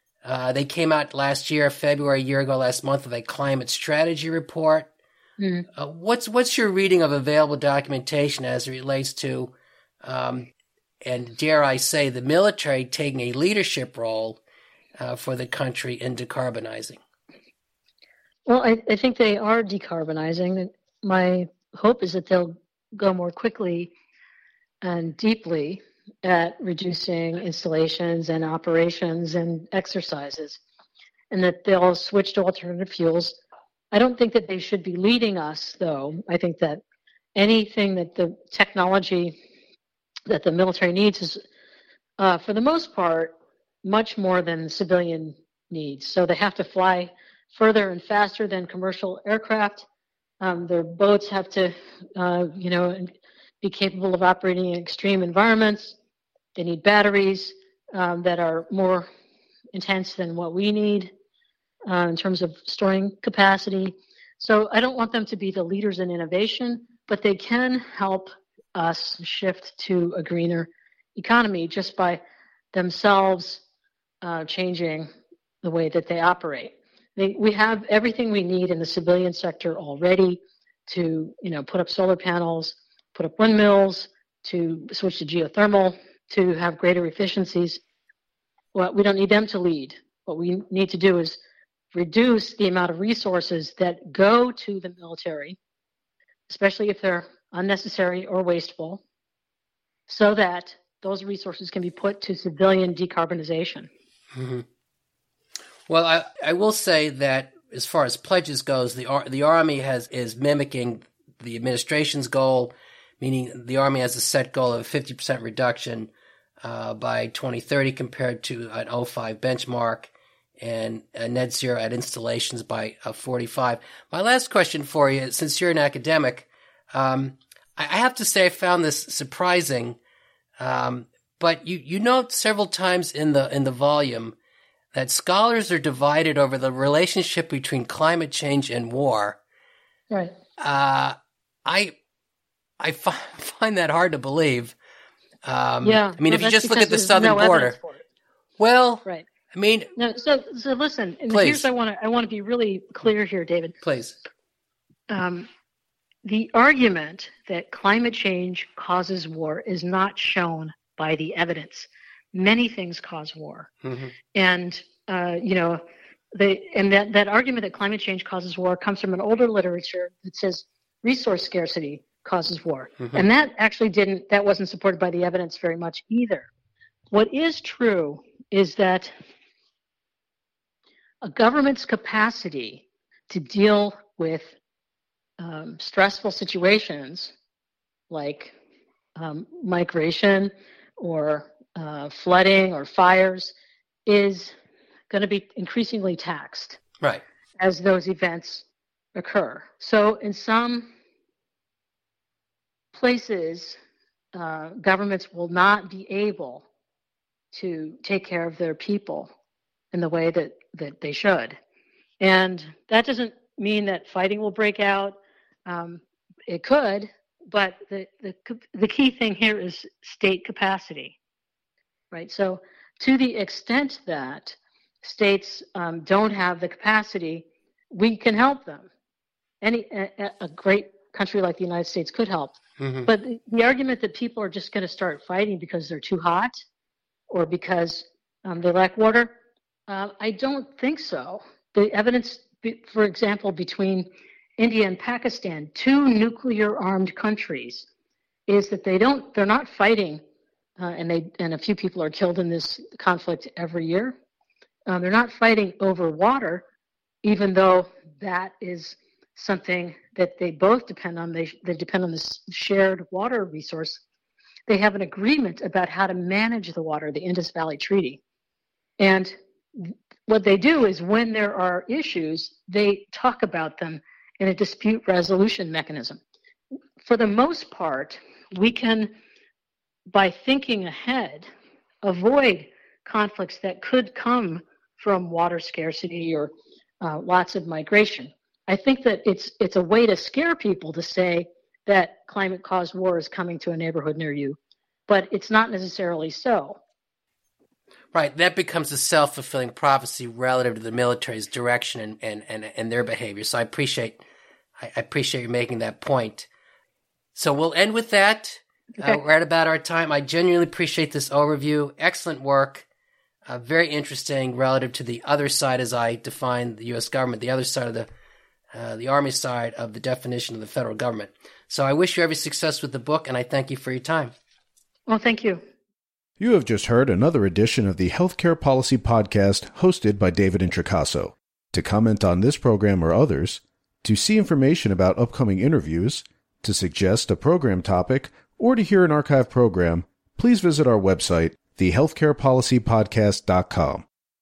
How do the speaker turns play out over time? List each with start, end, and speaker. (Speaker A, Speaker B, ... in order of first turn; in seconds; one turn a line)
Speaker A: 0.2-4.9
Speaker B: 5.4-5.7
Speaker A: 5.7-10.5
Speaker A: 11.0-14.4
Speaker A: 15.0-17.0
Speaker B: 18.5-23.9
Speaker B: 24.8-30.6
Speaker B: 31.3-33.4
Speaker B: 33.9-36.8
Speaker B: 37.4-39.4
Speaker B: 40.3-41.4
Speaker B: 42.2-49.9
Speaker B: 50.4-56.0
Speaker B: 56.5-59.1
Speaker B: 59.7-61.1
Speaker B: 61.9-72.2
Speaker B: 72.7-73.6
Speaker B: 74.2-75.1
Speaker B: 75.6-87.8
Speaker B: 88.7-91.4
Speaker B: 91.9-95.6
Speaker B: 96.5-99.0
Speaker B: 100.1-103.9
Speaker A: 104.3-104.6
Speaker A: 105.9-116.1
Speaker A: 116.6-130.0
Speaker A: 130.6-134.3
Speaker A: 134.9-139.4
Speaker B: 140.1-140.3
Speaker A: 140.6-141.9
Speaker A: 142.8-144.7
Speaker A: 145.4-147.8
Speaker B: 145.8-148.0
Speaker A: 148.6-149.9
Speaker B: 149.9-153.7
Speaker A: 151.3-151.7
Speaker A: 153.8-154.2
Speaker B: 155.1-155.5
Speaker B: 156.2-163.7
Speaker A: 163.8-164.1
Speaker B: 164.3-165.8
Speaker B: 166.3-176.5
Speaker B: 177.1-179.1
Speaker B: 181.2-184.5
Speaker B: 185.4-187.3
Speaker B: 188.1-188.6
Speaker B: 189.2-193.5
Speaker B: 194.1-194.5
Speaker B: 195.1-196.8
Speaker B: 197.6-200.9
Speaker B: 202.9-203.8
Speaker B: 204.3-206.7
Speaker B: 207.5-209.3
Speaker B: 209.9-211.6
Speaker B: 212.2-221.2
Speaker B: 222.1-228.9
Speaker B: 229.6-236.6
Speaker A: 232.8-233.1
Speaker B: 237.3-239.3
Speaker B: 239.9-247.9
Speaker B: 248.5-250.2
Speaker B: 250.8-254.1
Speaker B: 254.9-256.6
Speaker B: 257.2-264.0
Speaker B: 264.7-268.2
Speaker B: 269.0-276.2
Speaker B: 277.0-279.1
Speaker B: 280.1-281.5
Speaker B: 282.0-296.8
Speaker A: 298.1-304.2
Speaker A: 304.8-306.5
Speaker A: 307.3-312.8
Speaker A: 313.4-318.1
Speaker A: 318.7-324.3
Speaker B: 325.1-325.6
Speaker C: 326.4-344.1